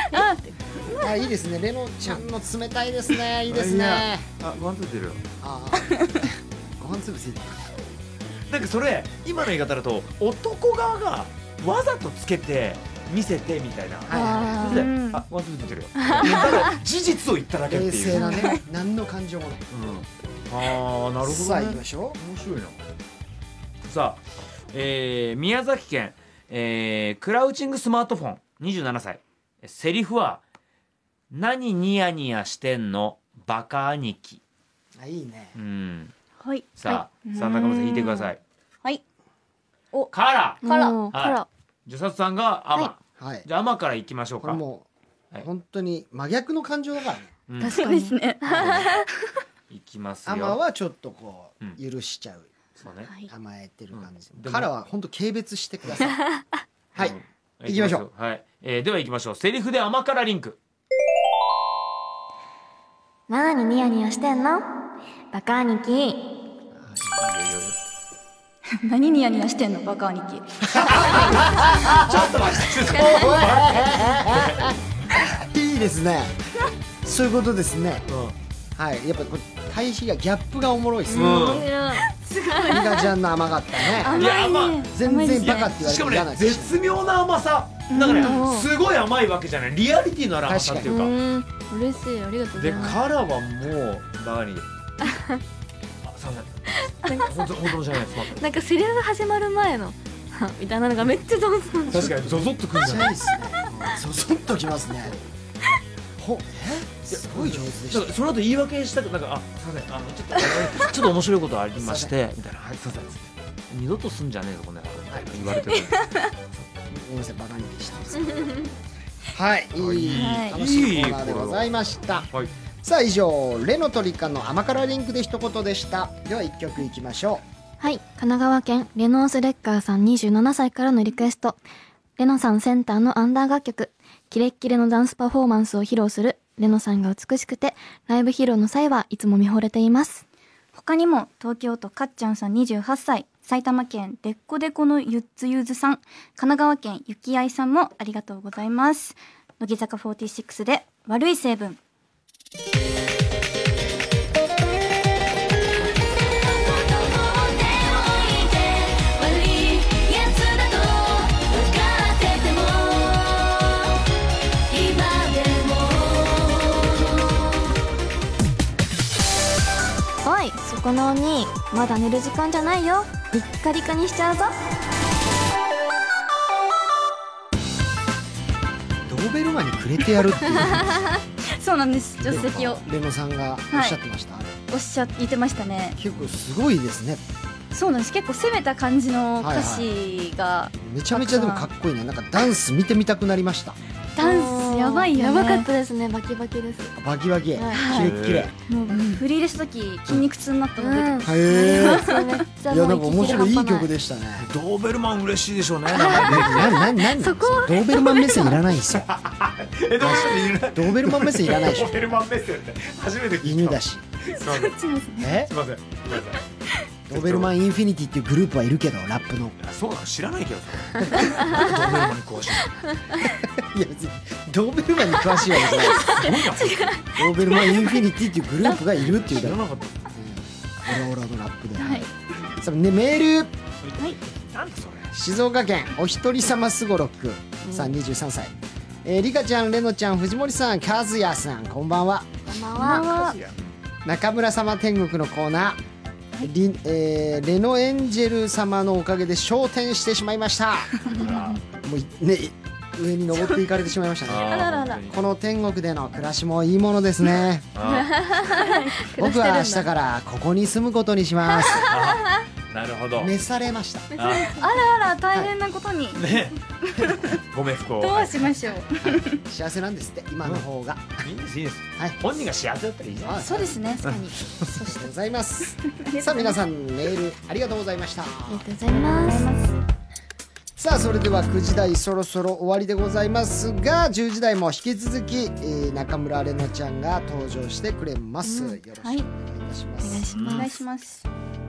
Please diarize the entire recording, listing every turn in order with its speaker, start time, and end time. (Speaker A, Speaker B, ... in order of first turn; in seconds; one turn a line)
Speaker A: 0.1-0.4
Speaker B: 0.1-0.4
Speaker C: 1.0-4.3
Speaker D: 3.5-5.2
Speaker C: 5.4-7.7
Speaker D: 8.5-18.6
Speaker C: 14.1-14.7
Speaker A: 14.1-14.9
Speaker B: 14.6-15.2
Speaker C: 17.7-19.7
Speaker D: 19.7-22.8
Speaker C: 21.2-22.2
Speaker D: 23.9-30.4
Speaker D: 31.3-34.4
Speaker C: 35.0-35.6
Speaker D: 35.6-36.1
Speaker B: 36.4-38.3
Speaker D: 36.8-38.4
Speaker D: 40.1-44.6
Speaker B: 40.6-41.0
Speaker A: 40.6-41.5
Speaker C: 43.2-43.5
Speaker C: 44.4-47.4
Speaker D: 47.5-47.8
Speaker A: 47.6-48.8
Speaker B: 47.6-49.0
Speaker D: 48.5-48.9
Speaker D: 49.7-50.6
Speaker C: 50.3-56.2
Speaker D: 52.8-53.1
Speaker D: 53.9-54.7
Speaker C: 57.0-58.1
Speaker D: 57.0-60.6
Speaker A: 63.3-64.7
Speaker A: 65.3-66.3
Speaker D: 67.0-67.8
Speaker B: 68.7-71.2
Speaker D: 70.7-74.8
Speaker C: 70.9-76.4
Speaker C: 77.0-78.1
Speaker D: 78.1-78.3
Speaker C: 78.8-81.6
Speaker A: 81.1-83.0
Speaker D: 81.2-81.7
Speaker B: 82.0-83.0
Speaker C: 82.7-84.3
Speaker B: 83.8-85.7
Speaker D: 84.1-84.9
Speaker C: 84.9-86.8
Speaker D: 85.4-91.1
Speaker B: 87.9-88.5
Speaker A: 88.2-88.7
Speaker C: 90.5-91.0
Speaker A: 90.8-93.0
Speaker D: 92.6-94.7
Speaker A: 95.0-95.4
Speaker D: 96.0-98.4
Speaker A: 96.9-97.7
Speaker A: 98.3-102.2
Speaker D: 101.9-104.0
Speaker C: 102.0-105.2
Speaker C: 106.2-108.2
Speaker D: 107.1-116.3
Speaker C: 111.8-112.1
Speaker C: 115.1-115.5
Speaker B: 116.0-116.3
Speaker C: 116.9-118.6
Speaker C: 119.3-122.3
Speaker D: 119.8-121.7
Speaker B: 120.1-120.6
Speaker C: 122.8-127.4
Speaker A: 127.8-131.6
Speaker A: 132.2-140.2
Speaker B: 140.7-151.8
Speaker E: 156.1-163.9
Speaker E: 164.7-167.6
Speaker A: 170.2-174.6
Speaker C: 179.1-181.1
Speaker B: 181.5-182.8
Speaker C: 182.2-184.6
Speaker B: 183.7-184.0
Speaker B: 184.7-186.0
Speaker C: 186.0-187.2
Speaker B: 187.7-191.7
Speaker C: 189.4-189.9
Speaker C: 190.8-193.8
Speaker B: 194.2-195.7
Speaker A: 194.2-196.9
Speaker C: 196.9-198.5
Speaker A: 197.6-198.1
Speaker B: 197.7-198.1
Speaker D: 197.9-198.5
Speaker A: 198.7-199.2
Speaker B: 198.9-202.3
Speaker A: 200.8-203.9
Speaker C: 201.2-202.1
Speaker C: 202.7-204.5
Speaker D: 204.4-206.8
Speaker A: 205.9-208.6
Speaker C: 205.9-209.1
Speaker D: 208.9-214.8
Speaker C: 210.0-212.0
Speaker C: 213.4-214.0
Speaker B: 214.4-215.3
Speaker C: 215.2-215.5
Speaker D: 215.4-216.5
Speaker C: 217.1-219.6
Speaker D: 217.1-217.5
Speaker D: 219.6-223.0
Speaker C: 221.5-221.8
Speaker C: 223.2-226.2
Speaker D: 225.9-227.1
Speaker A: 226.0-226.9
Speaker C: 227.1-233.5
Speaker D: 229.3-230.1
Speaker B: 231.8-232.1
Speaker D: 233.8-235.1
Speaker C: 235.1-242.4
Speaker A: 237.6-237.9
Speaker A: 242.5-243.3
Speaker B: 242.8-243.4
Speaker D: 243.1-243.7
Speaker C: 244.1-245.8
Speaker C: 246.4-251.1
Speaker D: 251.1-251.6
Speaker C: 251.7-257.7
Speaker D: 254.2-255.2
Speaker B: 254.5-255.0
Speaker D: 257.8-258.4
Speaker A: 257.9-259.9
Speaker B: 258.5-259.2
Speaker C: 259.1-261.9
Speaker D: 261.8-263.3
Speaker C: 263.2-264.1
Speaker A: 264.1-264.7
Speaker D: 264.2-264.5
Speaker B: 264.4-267.4
Speaker D: 266.1-266.6
Speaker D: 267.1-268.6
Speaker B: 268.0-269.4
Speaker C: 269.1-271.3
Speaker D: 271.2-273.5
Speaker C: 273.2-273.8
Speaker B: 273.4-275.1
Speaker D: 274.1-274.7
Speaker C: 274.7-278.7
Speaker B: 275.8-276.6
Speaker A: 278.5-279.5
Speaker B: 279.1-279.8
Speaker C: 280.8-290.6
Speaker A: 288.4-288.8
Speaker A: 290.0-290.8
Speaker D: 290.3-290.6
Speaker B: 290.4-291.2